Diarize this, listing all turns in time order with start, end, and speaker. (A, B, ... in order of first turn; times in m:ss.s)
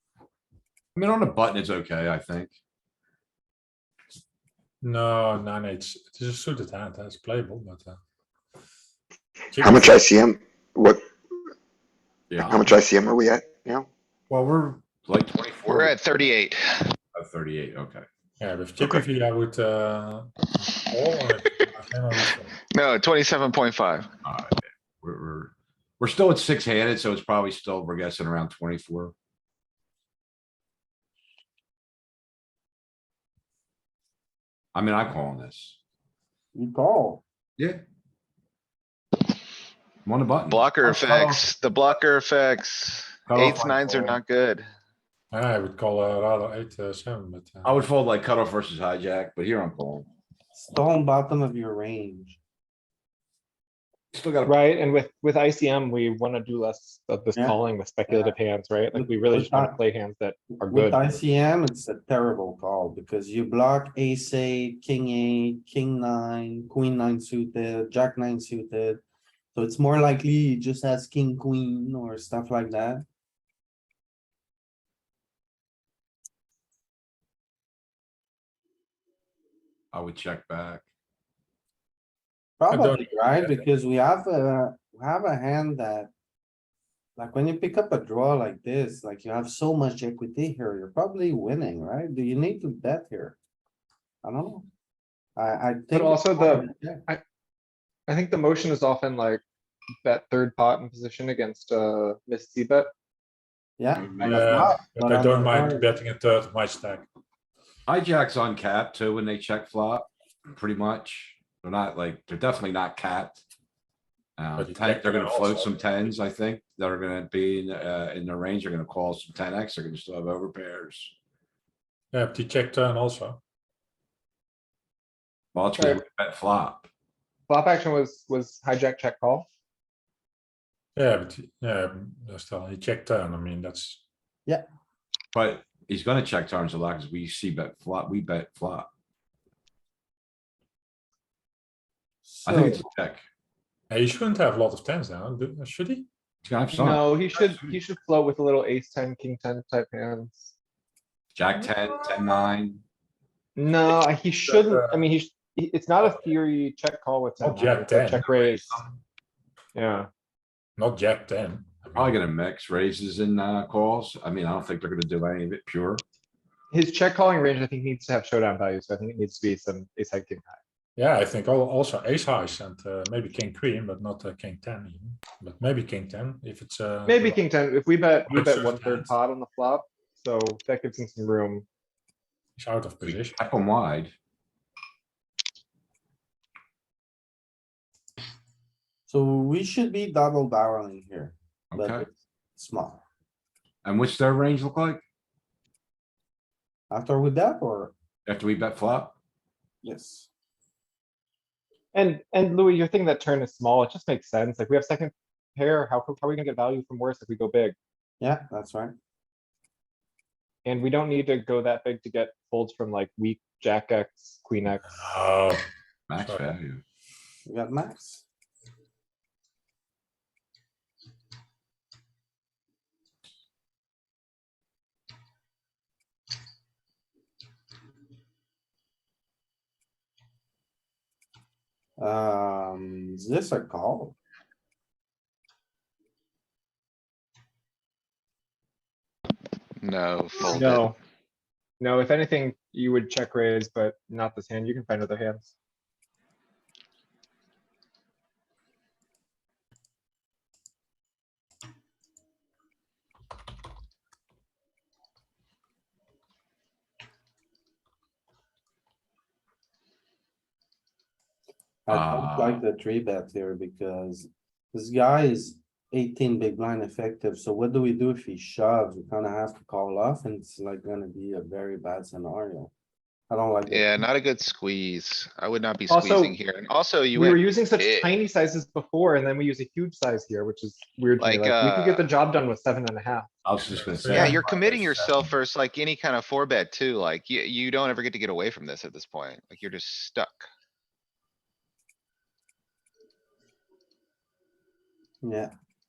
0:01.0-0:02.5 A
0:04.8-0:08.0 B
0:09.5-0:10.1 B
0:09.6-0:11.1 C
0:12.3-0:12.7 A
0:12.4-0:13.9 C
0:14.3-0:16.3 A
0:15.7-0:16.9 D
0:17.2-0:18.0 A
0:18.4-0:22.5 B
0:22.7-0:24.1 D
0:24.2-0:29.1 A
0:34.7-0:35.8 A
0:36.5-0:37.2 E
0:37.6-0:37.8 A
0:40.0-0:41.5 A
0:40.5-0:44.7 D
0:43.3-0:44.2 A
0:45.3-0:47.8 B
0:47.6-0:50.1 A
0:50.5-0:52.4 E
0:54.1-0:54.6 A
0:54.4-1:01.2 F
0:58.1-0:58.4 E
0:58.9-0:59.8 E
1:00.6-1:09.0 E
1:09.5-1:13.0 E
1:19.9-1:20.8 A
1:22.6-1:26.1 E
1:22.7-1:23.7 B
1:27.2-1:33.4 E
1:34.2-1:34.7 E
1:35.4-1:37.0 E
1:35.9-1:37.2 F
1:38.1-1:39.4 F
1:40.0-1:42.9 F
1:43.8-1:45.9 E
1:43.9-1:44.7 A
1:44.2-1:47.0 B
1:47.9-1:53.4 A
1:54.4-2:01.1 A
1:54.6-1:56.0 B
2:02.1-2:03.4 B
2:05.5-2:06.9 A
2:07.5-2:09.5 F
2:11.0-2:14.0 B
2:15.3-2:18.9 A
2:22.2-2:22.8 E
2:22.5-2:23.2 A
2:22.5-2:22.8 B
2:23.9-2:26.1 B
2:26.4-2:27.6 A
2:26.7-2:30.5 F
2:31.3-2:32.8 A
2:33.6-2:38.8 F
2:34.5-2:35.0 B
2:37.4-2:38.3 B
2:38.2-2:39.0 A
2:39.8-2:40.1 F
2:40.8-2:42.1 B
2:42.0-2:46.0 A
2:46.7-2:50.6 F
2:51.0-2:57.4 B
2:57.1-3:01.7 F
2:58.3-2:59.1 B
3:02.6-3:03.4 B
3:03.0-3:04.1 A
3:09.1-3:13.0 E
3:11.7-3:12.1 A
3:13.8-3:15.0 A
3:16.9-3:17.9 E
3:18.3-3:19.2 A
3:19.8-3:20.3 E
3:21.9-3:27.8 F
3:28.2-3:29.0 E
3:30.6-3:35.1 F
3:35.0-3:35.6 B
3:36.1-3:36.8 A
3:36.2-3:36.5 B
3:37.5-3:38.2 E
3:52.0-3:54.2 E
3:59.8-4:00.9 D
4:00.5-4:01.0 F
4:01.8-4:05.5 F
4:21.8-4:32.7 E
4:21.9-4:22.6 A
4:33.3-4:34.1 E
4:33.7-4:38.1 D
4:35.9-4:36.4 F
4:37.1-4:43.3 F
4:41.2-4:42.1 D
4:43.4-4:44.4 A
4:43.6-4:45.3 B
4:44.1-4:50.5 D
4:55.2-4:55.5 E